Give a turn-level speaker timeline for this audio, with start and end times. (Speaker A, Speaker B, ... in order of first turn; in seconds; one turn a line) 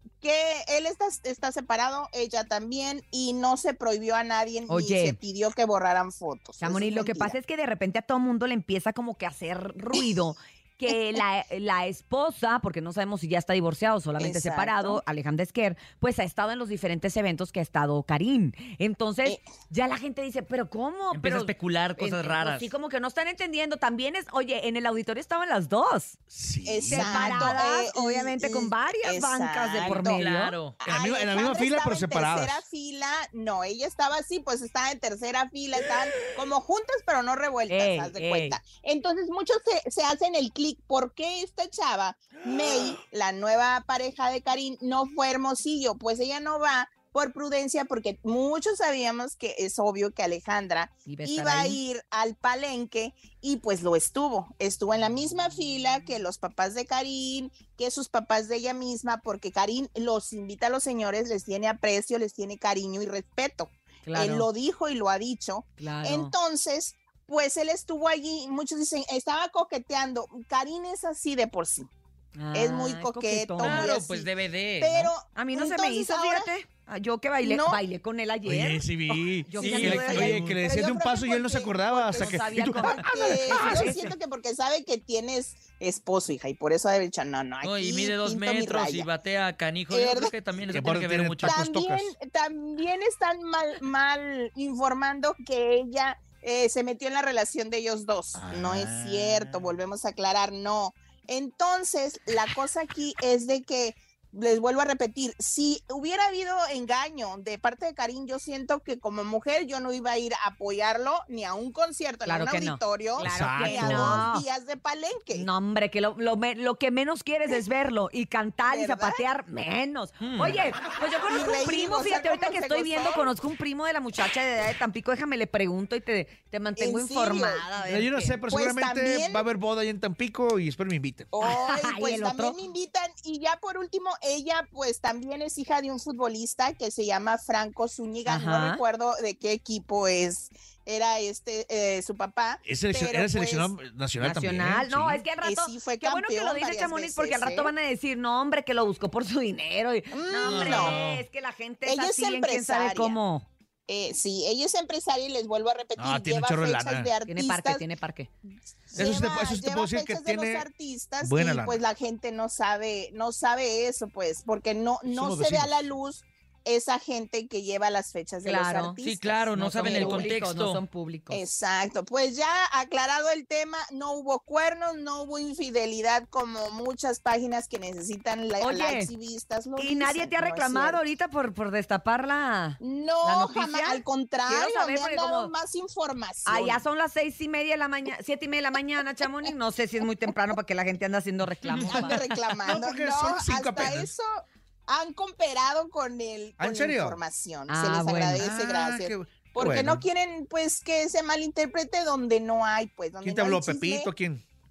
Speaker A: 0.2-7.4
Speaker B: 4.7-5.2
Speaker B: 6.6-26.1
Speaker A: 14.2-15.0
Speaker C: 21.1-22.7
Speaker D: 26.3-27.6
Speaker A: 26.7-30.2
Speaker B: 26.9-30.6
Speaker C: 30.1-30.8
Speaker A: 30.8-71.9
Speaker D: 30.9-32.6
Speaker B: 37.7-38.6
Speaker B: 51.1-51.8
Speaker B: 64.0-64.5
Speaker B: 65.8-66.3
Speaker B: 72.4-73.9
Speaker A: 72.5-76.5
Speaker C: 73.6-75.1
Speaker B: 75.3-78.9
Speaker A: 77.4-77.8
Speaker D: 78.5-83.5
Speaker A: 79.1-89.1
Speaker B: 79.4-80.5
Speaker C: 79.6-80.5
Speaker B: 81.9-84.0
Speaker C: 87.6-91.6
Speaker A: 89.9-90.3
Speaker D: 90.7-92.1
Speaker A: 91.4-115.5
Speaker D: 98.5-99.5
Speaker B: 112.2-114.5
Speaker D: 113.2-114.3
Speaker B: 115.3-128.4
Speaker A: 118.7-119.2
Speaker C: 120.2-120.6
Speaker A: 121.3-123.3
Speaker A: 126.8-127.7
Speaker D: 127.8-131.3
Speaker A: 128.5-129.5
Speaker A: 131.3-143.7
Speaker B: 131.4-132.6
Speaker B: 138.3-138.8
Speaker D: 142.6-145.2
Speaker B: 144.2-153.5
Speaker A: 145.4-147.7
Speaker A: 150.1-151.0
Speaker C: 150.4-151.3
Speaker A: 151.8-153.2
Speaker A: 153.9-157.9
Speaker D: 156.0-157.1
Speaker B: 157.3-158.3
Speaker A: 158.9-170.3
Speaker D: 158.9-160.7
Speaker D: 161.2-161.8
Speaker D: 165.1-165.7
Speaker B: 168.4-169.0
Speaker C: 169.0-170.8
Speaker B: 169.6-171.4
Speaker A: 171.3-181.0
Speaker B: 178.6-179.1
Speaker B: 179.8-185.5
Speaker A: 182.8-186.8
Speaker B: 186.5-192.2
Speaker C: 191.7-192.2
Speaker A: 191.8-204.1
Speaker D: 192.7-194.1
Speaker D: 196.6-197.2
Speaker B: 197.7-198.4
Speaker D: 198.4-200.0
Speaker D: 203.2-204.4